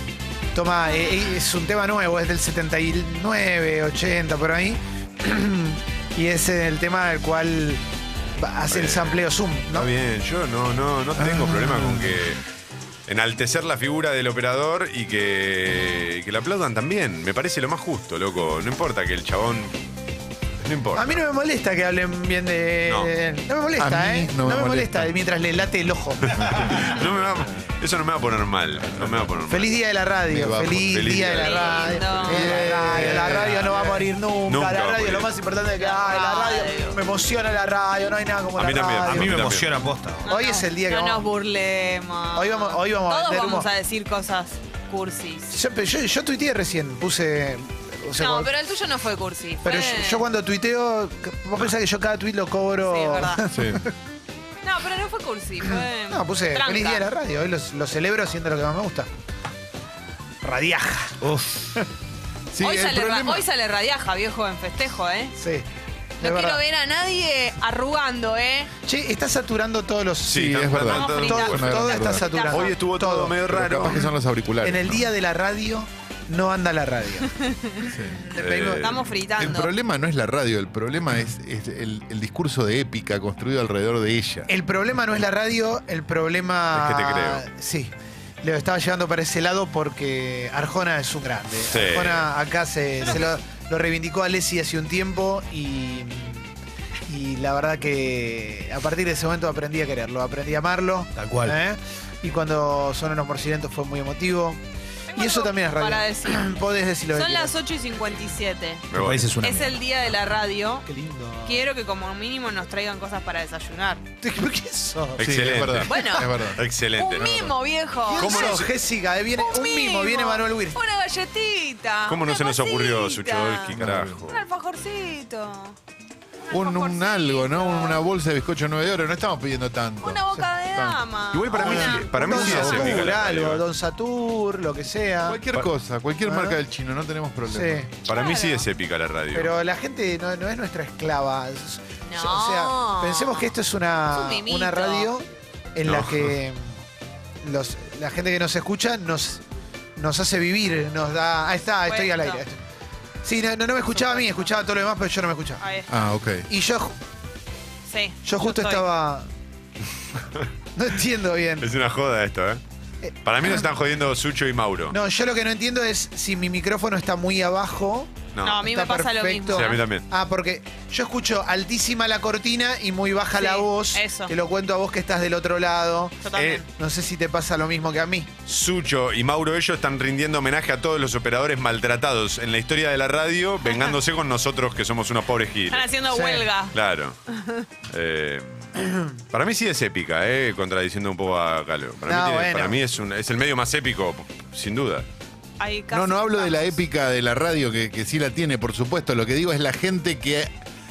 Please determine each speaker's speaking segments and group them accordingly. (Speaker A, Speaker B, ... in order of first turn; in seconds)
Speaker A: 0.5-7.8, 8.4-9.9, 11.6-11.9, 20.9-26.9, 29.5-39.4, 40.3-41.2, 42.3-43.7, 45.5-48.5, 49.6-53.9, 55.7-59.1, 60.4-61.2, 65.4-65.7, 66.2-66.6, 68.8-70.6, 71.2-74.0, 74.6-77.3, 78.2-78.9, 84.5-96.5, 97.0-104.6, 105.2-107.5, 110.8-111.6, 114.2-115.5, 118.0-120.8, 131.6-135.4, 136.2-136.6, 137.5-137.9, 139.3-146.8, 147.4-149.4, 149.9-152.6, 153.2-155.7, 156.5-156.9, 158.2-159.3, 160.7-161.7, 163.0-163.6, 164.9-168.1, 168.6-178.3, 186.1-186.5, 192.1-192.8
Speaker B: 8.7-12.4, 13.1-19.8, 20.6-21.2, 22.9-23.1, 26.3-29.8, 30.7-32.4, 34.5-35.3, 38.6-39.7, 70.3-74.0, 78.4-79.0, 86.7-87.4, 91.7-92.3, 108.9-109.3, 115.2-115.9, 116.6-117.5, 118.2-118.7, 122.1-124.4, 131.3-133.6, 138.1-139.5, 145.8-146.3, 161.6-162.6, 163.2-164.9, 168.3-168.6, 169.5-170.0, 178.4-185.9, 186.7-187.2, 187.9-188.7, 189.3-195.1
Speaker C: 11.3-12.1, 23.8-25.1, 30.3-31.0, 32.2-33.8, 53.5-53.8, 62.5-63.4, 70.3-72.2, 73.4-75.1, 77.8-78.2, 79.3-84.5, 115.2-116.6, 117.2-117.5, 123.7-124.2, 126.5-132.0, 135.2-137.8, 155.9-156.5, 195.9-200.5
Speaker D: 31.3-32.9, 35.7-37.0, 40.2-45.5, 48.2-50.2, 52.8-53.4, 54.6-57.0, 62.6-65.3, 66.2-68.7, 70.9-72.8, 77.3-79.7, 105.1-106.6, 107.1-110.9, 111.4-114.0, 115.8-118.7, 119.4-123.8, 124.3-125.8, 126.5-128.0, 130.0-132.9, 138.1-138.7, 142.0-143.5, 144.1-145.1, 151.8-152.4, 153.9-154.5, 155.6-155.9, 157.9-158.8, 168.4-169.8, 173.3-174.3, 176.2-176.6, 183.6-184.0, 185.7-186.8, 187.3-187.6, 195.6-196.7
Speaker E: 39.0-40.3, 61.2-61.7, 101.2-101.5, 108.9-109.8